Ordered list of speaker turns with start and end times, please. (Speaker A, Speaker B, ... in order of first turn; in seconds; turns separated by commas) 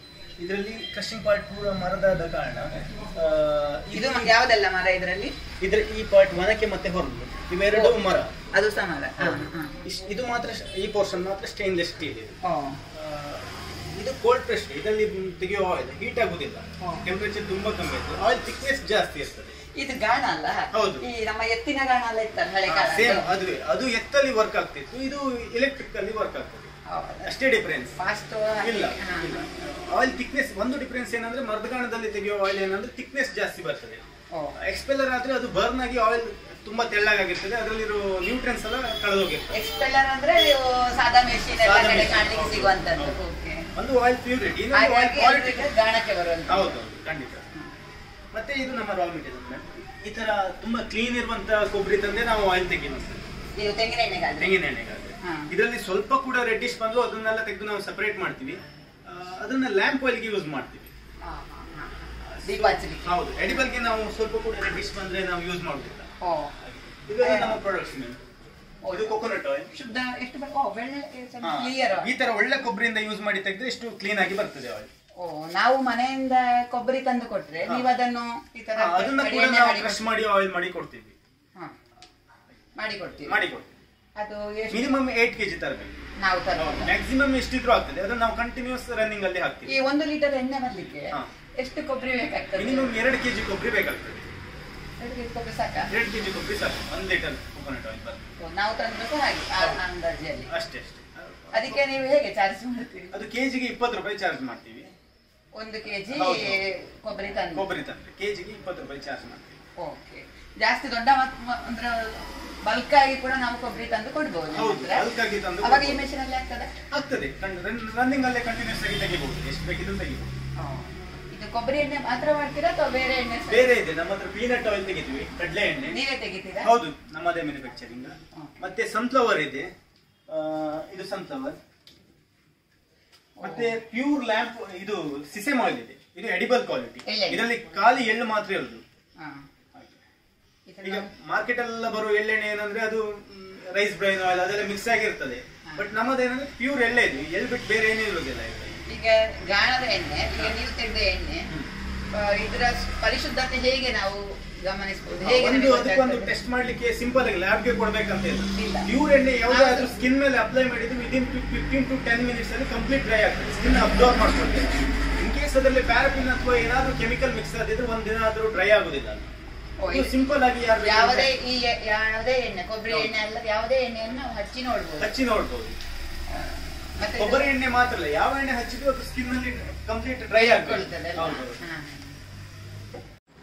Speaker A: 0.4-4.3, Speaker B: 3.9-5.4, Speaker A: 5.6-8.3, Speaker B: 7.7-8.0, Speaker B: 8.5-9.7, Speaker A: 9.2-12.4, Speaker B: 12.4-12.8, Speaker A: 12.9-19.6, Speaker B: 16.8-17.1, Speaker B: 19.7-23.3, Speaker A: 20.7-21.1, Speaker A: 22.7-26.7, Speaker B: 26.9-27.3, Speaker A: 27.2-28.0, Speaker B: 28.0-29.4, Speaker A: 28.6-34.0, Speaker A: 34.5-39.6, Speaker B: 39.5-43.7, Speaker A: 41.5-43.2, Speaker A: 43.7-45.7, Speaker B: 44.7-46.8, Speaker A: 46.5-47.5, Speaker A: 48.3-53.2, Speaker B: 53.5-54.6, Speaker A: 54.4-60.9, Speaker B: 61.2-61.9, Speaker A: 62.2-66.1, Speaker B: 62.4-63.7, Speaker B: 66.2-66.5, Speaker A: 66.6-68.2, Speaker B: 67.2-67.6, Speaker B: 68.8-69.1, Speaker A: 68.9-69.7, Speaker B: 69.7-72.1, Speaker A: 71.4-74.9, Speaker B: 75.2-80.1, Speaker A: 78.8-81.1, Speaker B: 82.8-83.4, Speaker A: 83.2-83.7, Speaker B: 84.2-84.8, Speaker A: 84.7-85.9, Speaker B: 86.2-86.9, Speaker A: 86.5-89.7, Speaker B: 89.7-92.9, Speaker A: 92.5-94.3, Speaker B: 95.0-95.9, Speaker A: 95.9-98.3, Speaker B: 98.4-100.5, Speaker A: 99.5-99.8, Speaker A: 100.5-101.8, Speaker B: 101.5-103.1, Speaker A: 103.1-104.9, Speaker B: 105.5-107.7, Speaker A: 106.1-106.8, Speaker A: 107.5-109.6, Speaker B: 109.8-115.1, Speaker A: 114.5-116.0, Speaker B: 115.6-116.7, Speaker A: 116.9-120.3, Speaker B: 120.6-123.7, Speaker A: 123.5-126.0, Speaker B: 125.9-126.7, Speaker A: 126.6-129.7, Speaker B: 128.3-128.6, Speaker A: 130.3-131.6, Speaker B: 133.4-133.8, Speaker A: 133.4-138.8, Speaker B: 137.1-137.5, Speaker B: 139.2-139.4, Speaker A: 139.7-140.0, Speaker B: 140.7-141.1, Speaker A: 140.8-148.8, Speaker B: 148.9-151.5, Speaker B: 152.1-156.3, Speaker A: 155.2-169.3, Speaker B: 158.5-158.9, Speaker B: 159.5-160.0, Speaker B: 169.8-170.1, Speaker A: 169.9-171.3, Speaker B: 170.8-175.2, Speaker A: 172.9-173.1, Speaker A: 175.0-175.8, Speaker B: 176.3-177.4, Speaker A: 177.2-181.6, Speaker B: 180.3-182.2